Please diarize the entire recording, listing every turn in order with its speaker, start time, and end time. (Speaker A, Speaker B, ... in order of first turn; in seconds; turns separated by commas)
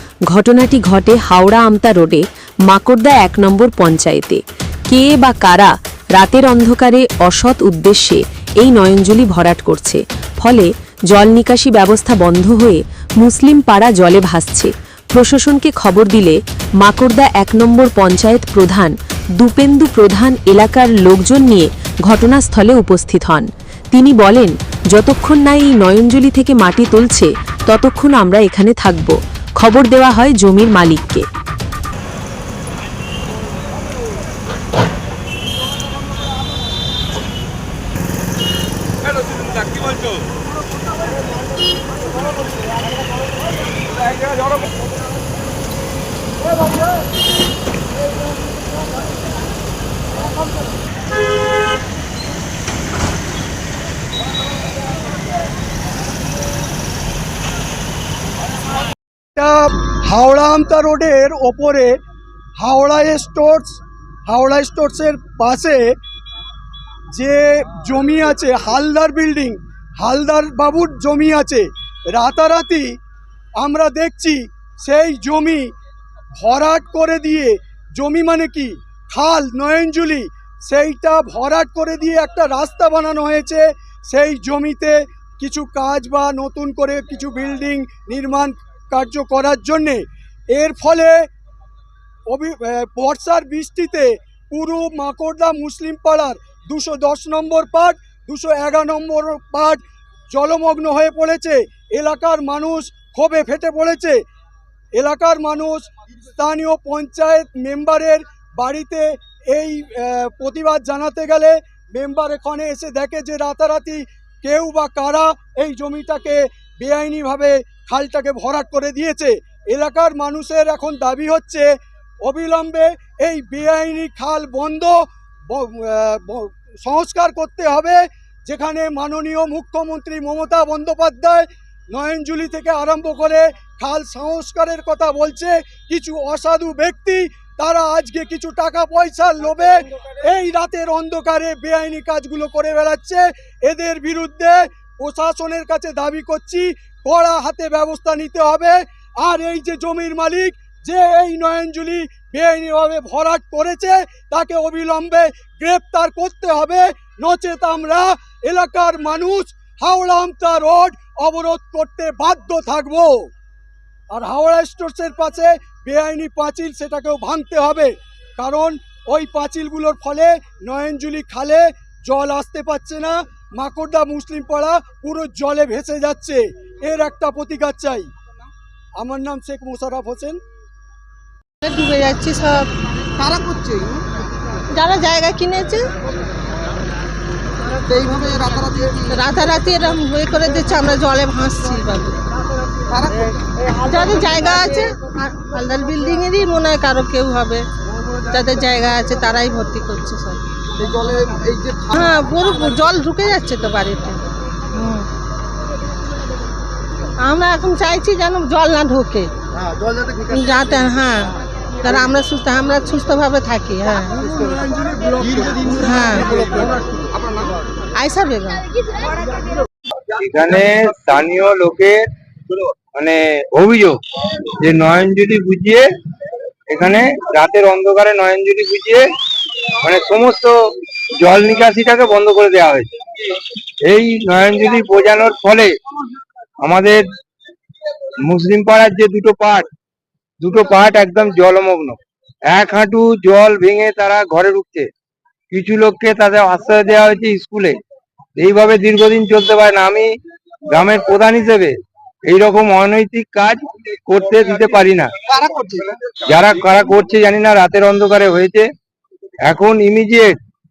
Speaker A: 0.3-31.3, Speaker B: 59.4-62.0, Speaker B: 62.6-66.0, Speaker B: 67.1-72.9, Speaker B: 73.6-75.7, Speaker B: 76.4-91.2, Speaker B: 92.3-104.2, Speaker B: 105.0-121.7, Speaker B: 122.2-163.3, Speaker B: 164.1-178.1, Speaker B: 179.0-180.4, Speaker C: 181.6-182.7, Speaker D: 183.2-184.0, Speaker C: 184.7-185.9, Speaker D: 187.8-189.1, Speaker C: 189.1-192.2, Speaker D: 192.9-193.3, Speaker C: 193.7-197.6, Speaker C: 198.3-200.4, Speaker D: 200.8-201.9, Speaker C: 201.9-205.1, Speaker C: 207.2-209.3, Speaker C: 210.1-216.5, Speaker C: 217.9-218.7, Speaker E: 220.2-222.0, Speaker E: 222.9-224.0, Speaker E: 224.6-225.9, Speaker E: 226.7-229.1, Speaker E: 229.8-230.5, Speaker E: 231.2-233.3, Speaker E: 233.8-235.7, Speaker E: 236.6-237.0, Speaker E: 238.3-239.7, Speaker E: 240.4-242.0, Speaker E: 242.5-244.9, Speaker E: 245.5-247.8, Speaker E: 248.4-250.1, Speaker E: 250.7-255.1, Speaker D: 255.4-255.9, Speaker E: 256.3-258.7, Speaker E: 259.5-260.4